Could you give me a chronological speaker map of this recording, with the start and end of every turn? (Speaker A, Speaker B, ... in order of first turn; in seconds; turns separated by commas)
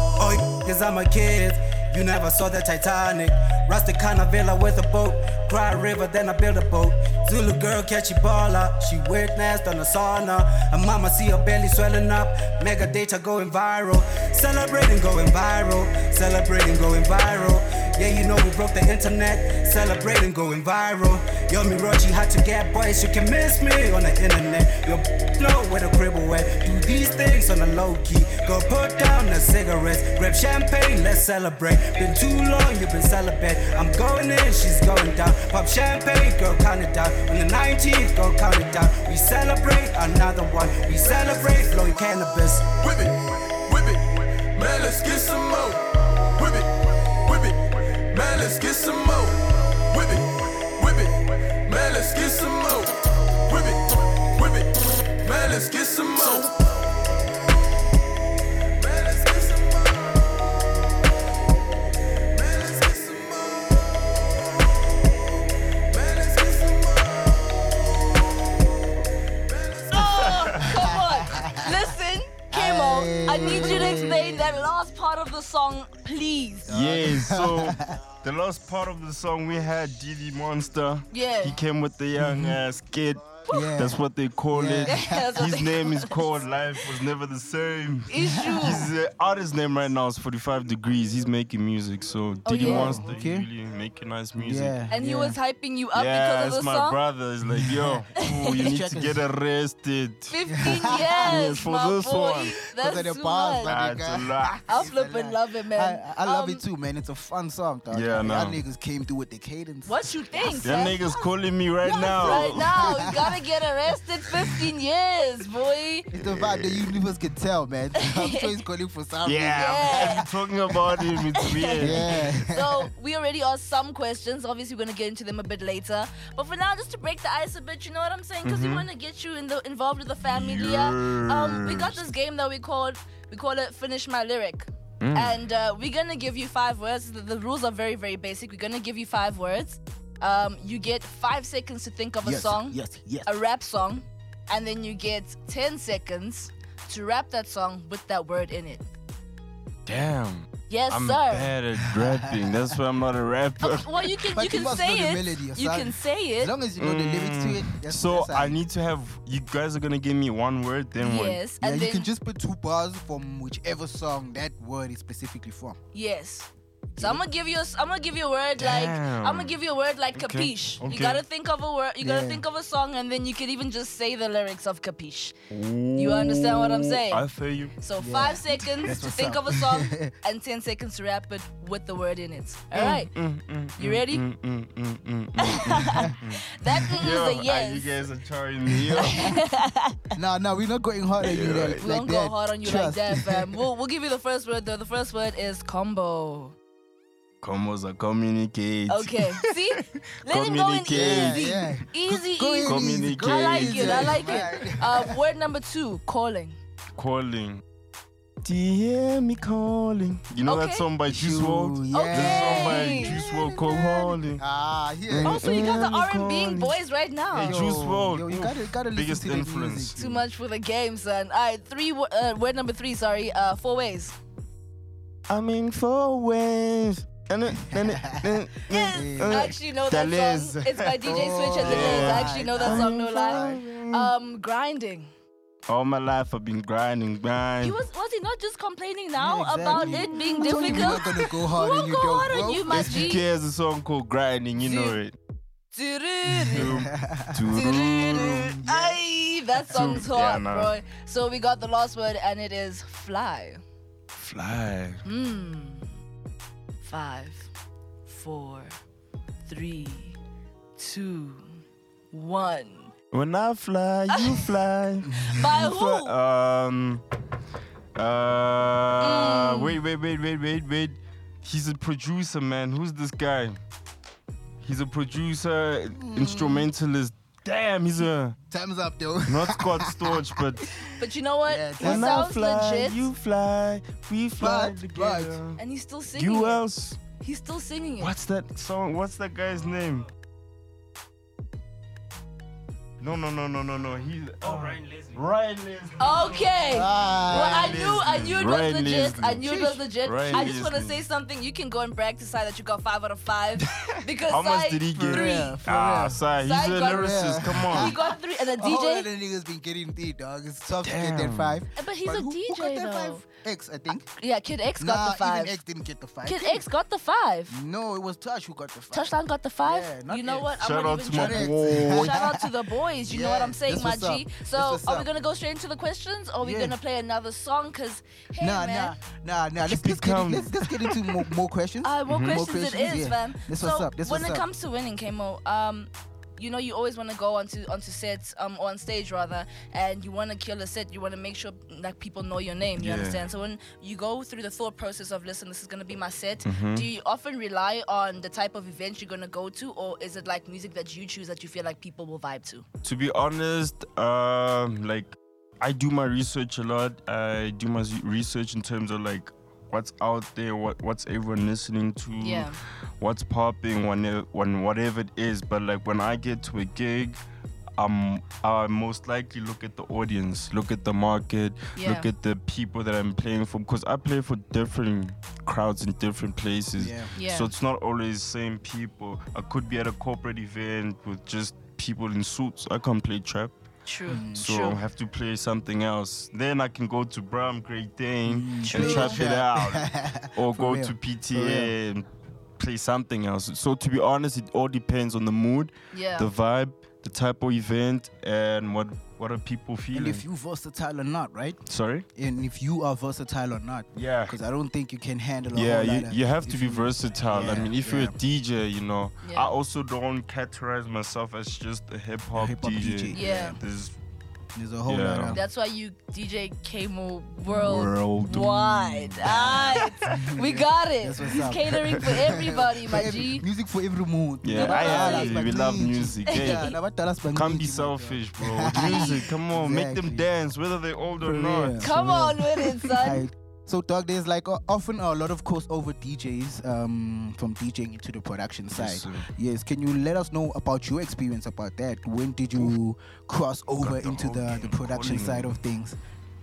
Speaker A: 0.2-42.7, Speaker B: 42.8-56.9, Speaker B: 58.8-60.9, Speaker B: 62.3-65.2, Speaker B: 65.9-68.1, Speaker B: 69.5-70.3, Speaker C: 69.9-76.8, Speaker D: 70.0-70.6, Speaker E: 70.8-71.7, Speaker E: 72.5-74.7, Speaker D: 73.5-74.0, Speaker E: 76.7-78.0, Speaker D: 76.7-94.8, Speaker C: 81.1-81.6, Speaker E: 82.2-82.6, Speaker C: 83.5-83.8, Speaker E: 83.5-85.4, Speaker C: 84.8-86.4, Speaker C: 88.1-88.9, Speaker C: 92.5-93.0, Speaker E: 92.5-93.5, Speaker E: 94.4-95.4, Speaker C: 94.9-97.0, Speaker D: 95.9-102.5, Speaker E: 97.5-98.0, Speaker C: 98.2-98.8, Speaker E: 98.5-99.2, Speaker C: 100.3-103.8, Speaker E: 100.5-101.5, Speaker E: 102.7-111.0, Speaker D: 103.6-104.6, Speaker C: 104.7-106.6, Speaker D: 107.9-108.6, Speaker C: 109.8-111.3, Speaker D: 110.5-113.1, Speaker C: 111.8-116.1, Speaker E: 112.2-113.4, Speaker E: 116.1-120.3, Speaker D: 116.2-117.0, Speaker C: 118.0-118.5, Speaker D: 119.2-122.3, Speaker C: 119.5-120.3, Speaker C: 121.4-148.9, Speaker E: 121.8-122.9, Speaker D: 128.4-128.9, Speaker D: 130.2-132.0, Speaker D: 135.0-135.4, Speaker E: 142.2-143.4, Speaker D: 149.9-153.9, Speaker C: 150.7-151.5, Speaker E: 151.8-152.8, Speaker C: 153.6-156.5, Speaker E: 154.3-158.6, Speaker D: 156.8-161.4, Speaker C: 161.0-162.1, Speaker E: 161.6-165.8, Speaker C: 165.9-175.3, Speaker E: 167.0-167.2, Speaker D: 168.6-169.6, Speaker D: 170.2-171.2, Speaker E: 172.0-172.4, Speaker D: 175.5-177.8, Speaker C: 175.9-177.3, Speaker C: 177.8-183.1, Speaker E: 178.0-180.1, Speaker D: 182.7-189.3, Speaker C: 183.8-184.2, Speaker C: 185.4-188.0, Speaker C: 189.0-190.0, Speaker E: 190.2-193.5, Speaker D: 191.2-191.9, Speaker C: 191.7-196.6, Speaker D: 197.4-199.5, Speaker C: 198.9-206.6, Speaker D: 200.2-201.6, Speaker E: 200.9-205.2, Speaker D: 202.6-204.4, Speaker D: 207.0-207.6, Speaker D: 208.4-214.4, Speaker C: 210.5-210.9, Speaker E: 211.1-213.4, Speaker C: 211.9-214.2, Speaker E: 214.4-215.9, Speaker D: 215.1-216.8, Speaker C: 215.2-217.7, Speaker D: 217.3-220.0, Speaker E: 217.3-220.2, Speaker C: 220.0-224.2, Speaker D: 225.3-234.1, Speaker E: 227.7-229.5, Speaker C: 228.7-235.1, Speaker E: 231.0-233.6, Speaker D: 235.7-237.8, Speaker C: 237.6-243.2, Speaker E: 239.2-243.1, Speaker D: 240.5-241.0, Speaker D: 242.7-245.1, Speaker C: 244.6-245.0, Speaker C: 245.7-246.7, Speaker E: 246.3-247.6, Speaker D: 246.5-248.6, Speaker C: 247.5-253.6, Speaker E: 248.2-249.0, Speaker D: 249.7-250.8, Speaker D: 254.1-255.0, Speaker C: 255.1-255.9, Speaker C: 256.8-257.5, Speaker C: 258.1-258.8, Speaker C: 259.5-260.2, Speaker C: 260.8-261.5, Speaker C: 262.1-262.9, Speaker D: 263.1-267.0, Speaker C: 264.1-264.4, Speaker E: 265.0-265.4, Speaker C: 265.3-266.1, Speaker D: 268.0-273.6, Speaker C: 269.0-269.8, Speaker D: 274.6-278.4, Speaker E: 275.9-276.7, Speaker E: 278.5-280.9, Speaker D: 279.3-280.7, Speaker C: 281.0-283.1, Speaker E: 281.5-282.3, Speaker D: 281.8-285.6, Speaker E: 284.4-285.4, Speaker C: 285.6-286.6, Speaker D: 286.1-287.0, Speaker C: 287.2-288.1, Speaker D: 288.0-290.1, Speaker D: 293.0-296.5, Speaker C: 296.0-305.6, Speaker E: 296.7-298.0, Speaker D: 297.2-301.0, Speaker E: 299.5-300.6, Speaker D: 304.3-308.0, Speaker E: 304.9-306.2, Speaker C: 306.4-309.1, Speaker E: 306.8-314.1, Speaker D: 310.8-311.6, Speaker C: 311.8-313.2, Speaker C: 314.2-315.6, Speaker E: 314.8-316.6, Speaker C: 316.2-317.6, Speaker E: 317.5-319.1, Speaker C: 318.9-329.0, Speaker E: 319.6-320.5, Speaker D: 320.6-322.2, Speaker E: 321.1-322.5, Speaker E: 323.1-325.1, Speaker E: 326.4-326.8, Speaker E: 328.4-334.5, Speaker D: 329.6-330.6, Speaker C: 331.8-352.6, Speaker D: 332.1-332.4, Speaker D: 342.8-343.2, Speaker D: 346.4-346.9, Speaker D: 352.8-367.2, Speaker C: 362.2-362.6, Speaker D: 367.8-383.6, Speaker C: 371.8-372.1, Speaker E: 376.8-377.1, Speaker C: 377.1-377.5, Speaker C: 383.9-384.8, Speaker E: 384.1-384.5, Speaker D: 384.4-392.1, Speaker E: 388.3-391.7, Speaker C: 388.6-389.3, Speaker D: 392.6-400.2, Speaker C: 395.9-396.3, Speaker E: 399.9-401.6, Speaker D: 401.7-402.1, Speaker E: 402.2-408.1, Speaker D: 403.9-404.4, Speaker D: 405.5-413.9, Speaker C: 409.2-409.5, Speaker E: 412.4-413.6, Speaker C: 413.1-413.6, Speaker E: 414.6-415.4, Speaker D: 414.9-415.4, Speaker C: 415.3-423.4, Speaker E: 417.6-418.6, Speaker D: 417.6-419.9, Speaker E: 419.2-430.3, Speaker D: 424.4-426.7, Speaker C: 424.5-425.4, Speaker C: 426.3-426.8, Speaker D: 427.3-431.9, Speaker C: 428.8-429.2, Speaker E: 431.2-446.0, Speaker C: 431.8-433.2, Speaker D: 438.7-439.3, Speaker D: 443.8-445.6